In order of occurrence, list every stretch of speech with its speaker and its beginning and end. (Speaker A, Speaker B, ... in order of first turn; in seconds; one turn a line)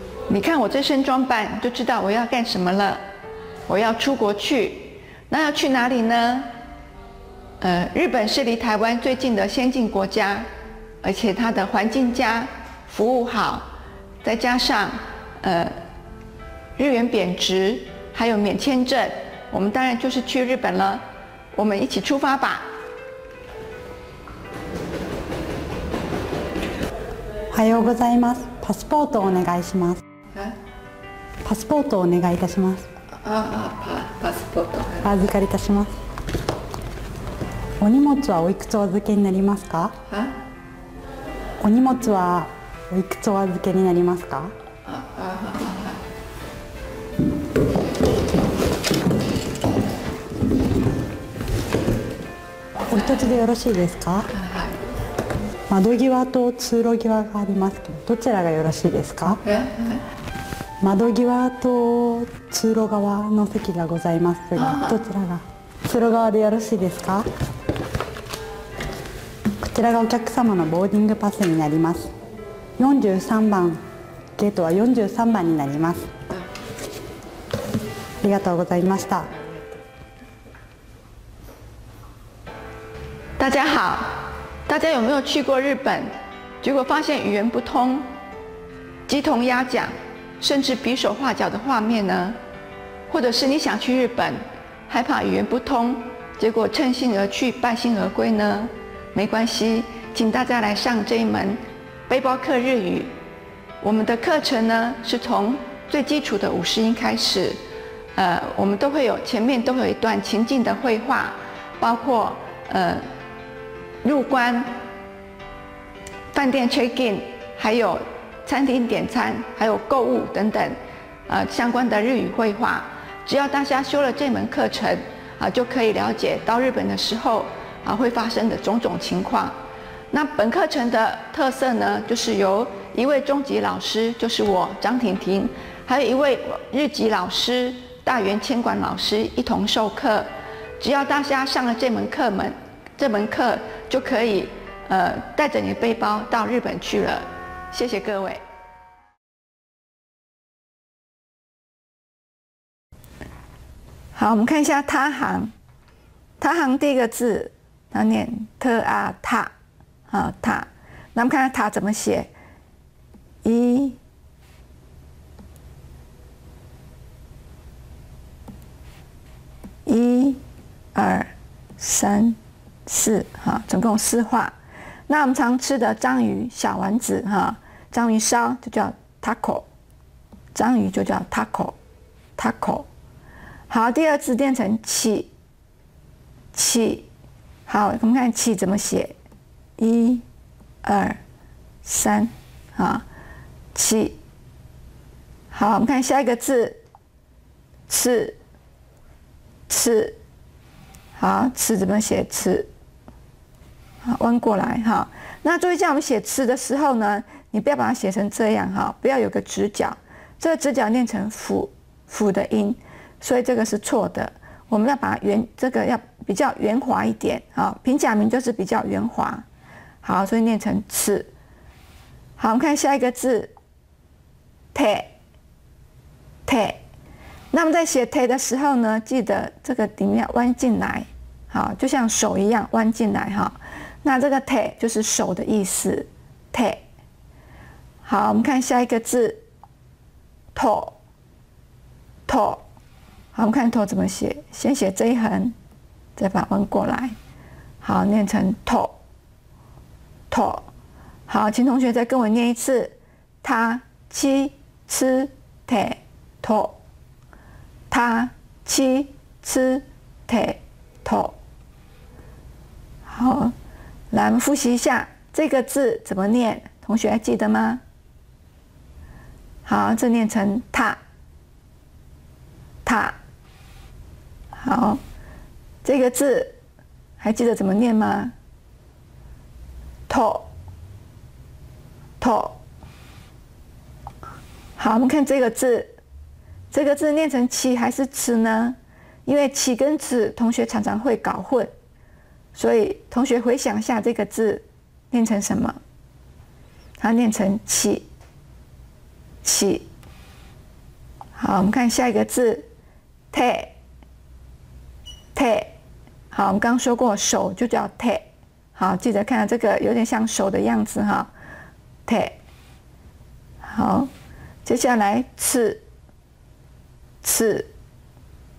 Speaker A: 0.3-3.0
Speaker A: 3.7-6.5
Speaker A: 7.6-10.5
Speaker A: 11.0-13.7
Speaker A: 14.2-15.7
Speaker A: 16.8-21.0
Speaker A: 21.5-22.6
Speaker B: 27.5-30.0
Speaker B: 31.4-32.8
Speaker A: 33.2-35.1
Speaker B: 35.0-35.9
Speaker B: 37.8-40.0
Speaker A: 40.1-40.4
Speaker B: 41.6-44.5
Speaker A: 44.9-46.0
Speaker B: 52.9-54.3
Speaker A: 54.3-54.8
Speaker B: 55.7-59.4
Speaker A: 59.4-60.0
Speaker B: 60.8-67.2
Speaker A: 64.5-65.0
Speaker B: 69.6-72.1
Speaker B: 72.8-73.8
Speaker B: 74.3-76.1
Speaker B: 78.2-79.3
Speaker A: 83.4-88.0
Speaker A: 89.1-92.3
Speaker A: 93.1-103.1
Speaker A: 103.8-107.6
Speaker A: 108.1-113.0
Speaker A: 114.0-114.7
Speaker A: 116.3-120.8
Speaker A: 121.3-129.5
Speaker A: 130.1-140.3
Speaker A: 140.8-148.4
Speaker A: 154.1-155.5
Speaker A: 156.4-159.5
Speaker A: 160.1-162.3
Speaker A: 163.4-164.0
Speaker A: 169.8-170.4
Speaker A: 170.9-174.5
Speaker A: 175.1-179.7
Speaker A: 180.5-181.8
Speaker A: 182.4-182.9
Speaker A: 183.7-185.3
Speaker A: 186.5-187.1
Speaker A: 187.7-189.2
Speaker A: 189.8-190.2
Speaker A: 190.8-191.2
Speaker A: 191.8-193.0
Speaker A: 193.7-194.2
Speaker A: 195.5-196.8
Speaker A: 197.9-198.4
Speaker A: 199.7-200.2
Speaker A: 201.2-202.7
Speaker A: 204.0-219.4
Speaker A: 220.0-221.3
Speaker A: 222.4-223.5
Speaker A: 224.7-225.1
Speaker A: 226.4-226.8
Speaker A: 227.5-236.8
Speaker A: 238.0-239.4
Speaker A: 240.5-240.9
Speaker A: 242.3-242.6
Speaker A: 243.3-245.5
Speaker A: 246.2-247.1
Speaker A: 247.8-248.9
Speaker A: 250.3-250.7
Speaker A: 251.3-256.8
Speaker A: 257.9-261.4
Speaker A: 263.1-263.5
Speaker A: 264.1-267.8
Speaker A: 269.6-271.0
Speaker A: 272.8-273.2
Speaker A: 274.5-275.0
Speaker A: 275.8-276.6
Speaker A: 277.2-278.3
Speaker A: 280.1-280.5
Speaker A: 282.2-282.6
Speaker A: 284.8-285.9
Speaker A: 286.7-291.7
Speaker A: 292.5-295.8
Speaker A: 297.0-298.1
Speaker A: 299.4-299.9
Speaker A: 301.4-302.6
Speaker A: 303.3-303.7
Speaker A: 305.3-305.7
Speaker A: 306.3-308.2
Speaker A: 308.7-311.3
Speaker A: 312.1-312.4
Speaker A: 313.6-314.1
Speaker A: 314.6-315.8
Speaker A: 317.2-317.7